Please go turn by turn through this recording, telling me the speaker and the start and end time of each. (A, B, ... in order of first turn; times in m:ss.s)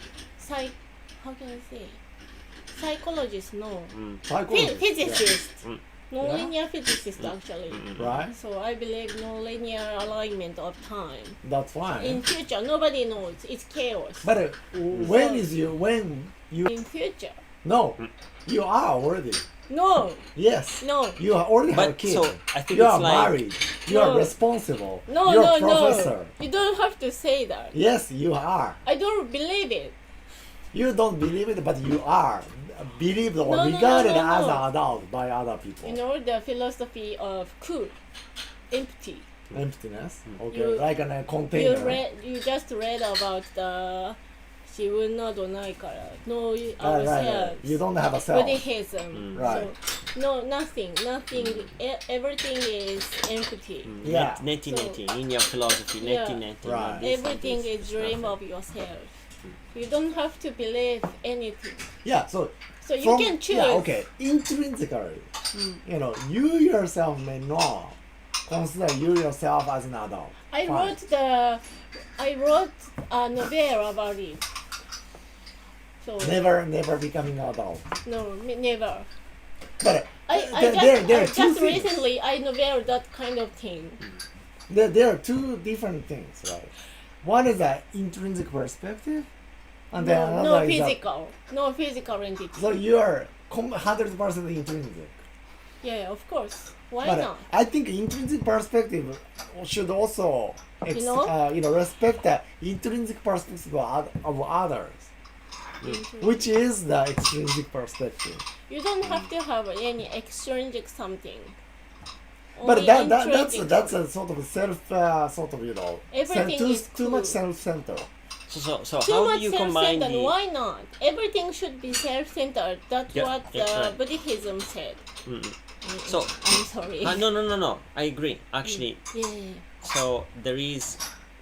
0:00.4-0:02.0 A
0:02.7-0:03.9 A
0:03.9-0:04.2 B
0:04.2-0:05.3 C
0:04.5-0:11.4 A
0:06.2-0:06.5 C
0:07.7-0:08.2 B
0:08.0-0:08.3 C
0:11.4-0:12.2 C
0:12.0-0:14.3 A
0:14.2-0:16.7 C
0:15.0-0:15.4 A
0:16.7-0:17.4 A
0:17.6-0:19.4 C
0:19.7-0:20.2 A
0:20.4-0:26.3 C
0:20.8-0:21.2 A
0:21.7-0:23.5 B
0:23.9-0:24.4 A
0:25.1-0:27.8 A
0:27.7-0:28.8 C
0:28.8-0:30.0 A
0:30.7-0:36.0 C
0:33.5-0:34.7 A
0:35.8-0:38.0 A
0:38.7-0:39.3 A
0:39.5-0:42.0 C
0:40.5-0:40.9 A
0:41.5-0:47.8 A
0:46.8-0:48.6 C
0:48.3-0:53.9 A
0:49.2-0:49.6 B
0:49.3-0:49.7 C
0:51.3-0:51.7 B
0:53.8-0:58.4 B
0:54.0-0:54.4 C
0:54.6-0:55.0 A
0:56.0-0:56.5 A
0:56.6-0:57.1 C
0:57.0-0:59.2 A
0:59.7-1:01.9 A
1:02.0-1:05.3 C
1:02.8-1:03.9 A
1:05.5-1:05.8 A
1:05.8-1:11.0 C
1:10.5-1:14.4 A
1:16.0-1:16.4 A
1:16.2-1:17.8 C
1:18.0-1:19.1 A
1:19.8-1:22.0 C
1:20.3-1:24.0 A
1:24.7-1:26.7 C
1:27.2-1:29.3 C
1:29.9-1:31.0 C
1:30.0-1:32.7 A
1:32.5-1:35.2 C
1:35.8-1:37.5 A
1:37.0-1:45.1 C
1:40.9-1:41.4 A
1:45.8-1:46.5 A
1:46.2-1:48.4 C
1:48.7-1:51.6 A
1:52.6-1:54.0 A
1:52.6-1:58.1 C
1:56.1-1:57.4 A
1:58.5-2:00.4 B
1:59.0-2:05.0 A
2:03.1-2:04.0 B
2:05.2-2:06.4 B
2:05.8-2:07.3 A
2:07.0-2:09.0 B
2:08.7-2:09.6 A
2:09.8-2:11.0 B